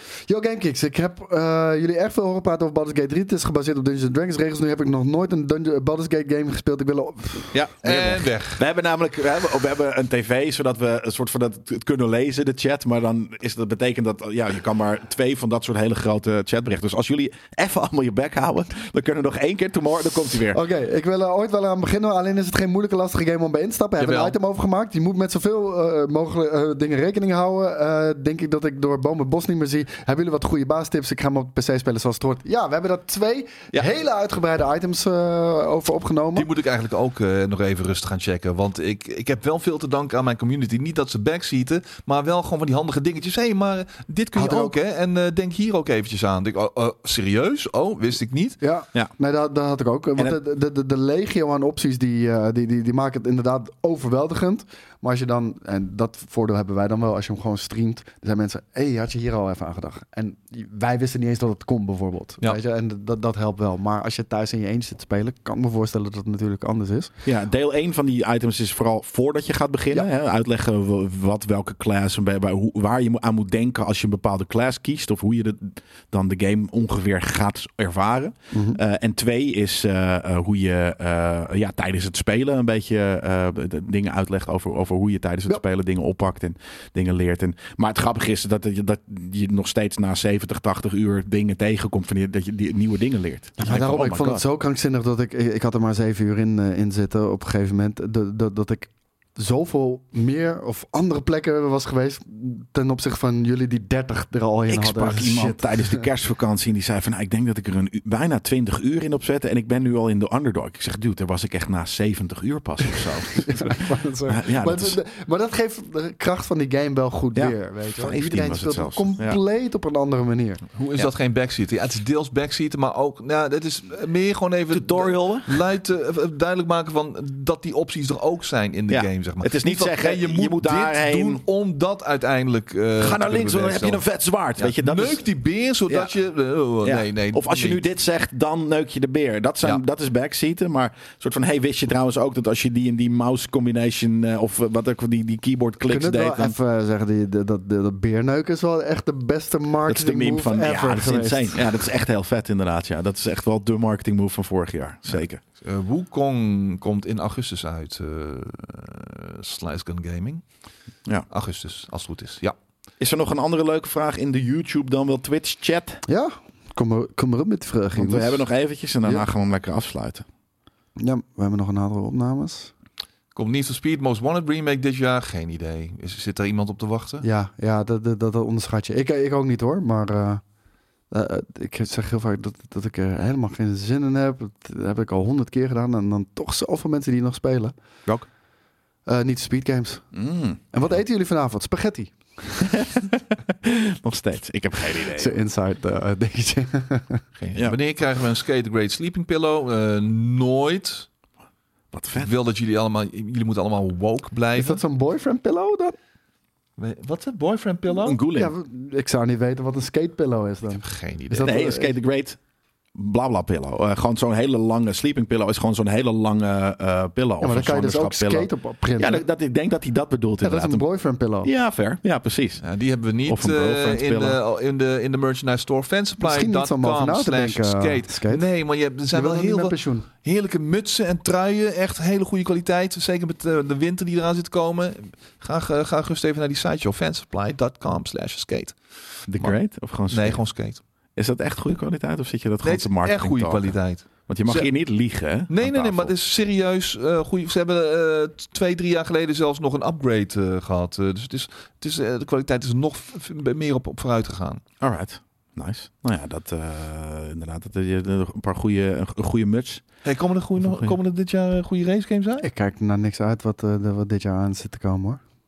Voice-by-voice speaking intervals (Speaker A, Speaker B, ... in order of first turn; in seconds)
Speaker A: 0.3-7.5, 20.5-36.5, 44.3-44.8, 48.6-67.1, 78.5-78.8, 93.6-106.0, 112.8-120.6, 145.8-151.6, 166.1-168.4, 171.0-172.7, 177.2-180.4, 181.1-187.7, 189.1-190.0, 190.7-192.8, 195.1-197.2, 204.6-205.9, 207.9-211.9, 217.4-219.2, 220.4-221.5, 226.2-228.4, 229.1-230.1, 262.4-265.2
Speaker B: 7.5-20.6, 67.2-94.4, 104.7-115.0, 117.3-119.4, 124.7-125.6, 128.9-131.4, 133.0-135.2, 136.8-146.6, 149.8-155.4, 163.0-166.0, 167.9-170.2, 190.1-190.6, 192.7-195.4, 201.9-202.3, 208.0-208.5, 211.4-212.4, 212.9-220.8, 221.4-222.6, 223.2-224.4, 239.3-240.4, 241.2-246.1, 254.8-259.8, 260.6-260.9
Speaker C: 7.8-8.6, 24.0-24.3, 36.3-48.6, 120.7-134.0, 134.6-137.8, 155.6-160.4, 161.3-162.5, 173.3-177.2, 197.4-201.1, 202.1-204.8, 206.8-208.2, 210.8-211.6, 222.6-238.8, 240.1-240.8, 242.6-244.7, 245.5-254.6, 260.0-262.4